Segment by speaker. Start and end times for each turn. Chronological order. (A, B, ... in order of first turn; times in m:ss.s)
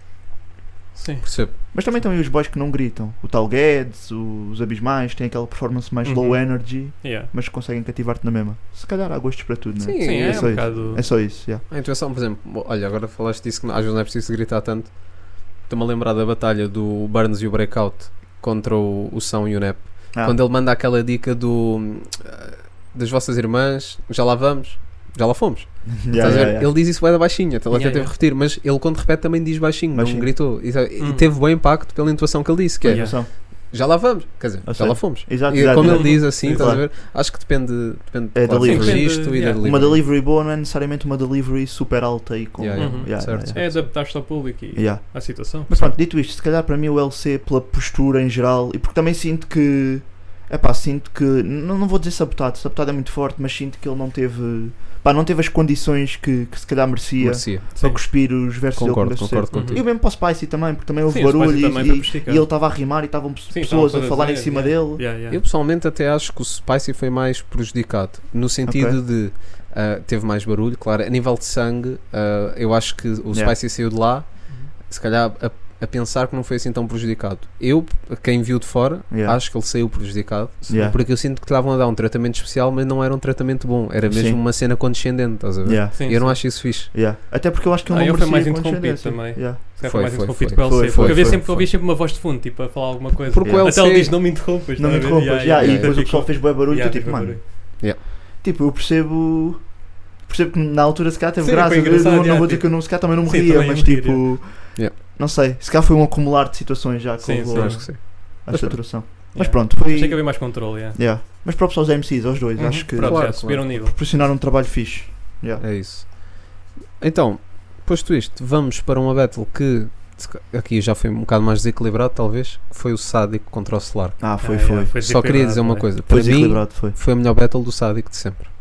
0:00.9-0:01.3 A
0:01.2-0:01.5 B
0:01.7-0:11.6 C
0:06.0-0:07.3 A
0:09.8-0:40.0 B
0:10.0-0:11.0 A
0:20.1-0:20.4 C
0:26.0-0:26.7 C
0:27.7-0:28.1 A
0:29.9-0:30.3 C
0:31.0-0:31.3 A
0:32.8-0:33.3 C
0:32.8-0:33.2 A
0:34.6-0:36.9 C
0:35.6-0:36.8 A
0:38.3-0:44.0 C
0:38.6-0:40.0 A
0:42.6-0:43.9 B
0:42.8-0:45.9 A
0:44.7-1:05.0 C
0:57.2-0:57.7 B
0:57.8-0:58.0 A
0:58.8-0:59.9 B
0:59.5-0:59.9 A
1:01.1-1:05.4 A
1:05.3-1:26.9 B
1:08.7-1:09.0 C
1:19.1-1:19.4 C
1:20.7-1:21.0 C
1:24.1-1:24.4 C
1:25.6-1:29.6 C
1:26.0-1:26.4 A
1:27.9-1:37.4 A
1:29.8-1:31.7 B
1:30.6-1:31.6 C
1:33.2-1:34.2 B
1:33.4-1:34.3 C
1:34.8-1:37.8 C
1:35.6-1:36.0 B
1:38.4-1:55.6 C
1:41.4-1:44.3 A
1:47.2-1:48.6 A
1:47.5-1:48.8 B
1:49.3-1:51.0 A
1:52.6-1:54.0 A
1:53.0-1:53.8 B
1:55.6-2:04.4 B
2:04.2-2:05.2 C
2:04.4-2:05.9 A
2:05.0-2:08.5 B
2:06.0-2:07.0 C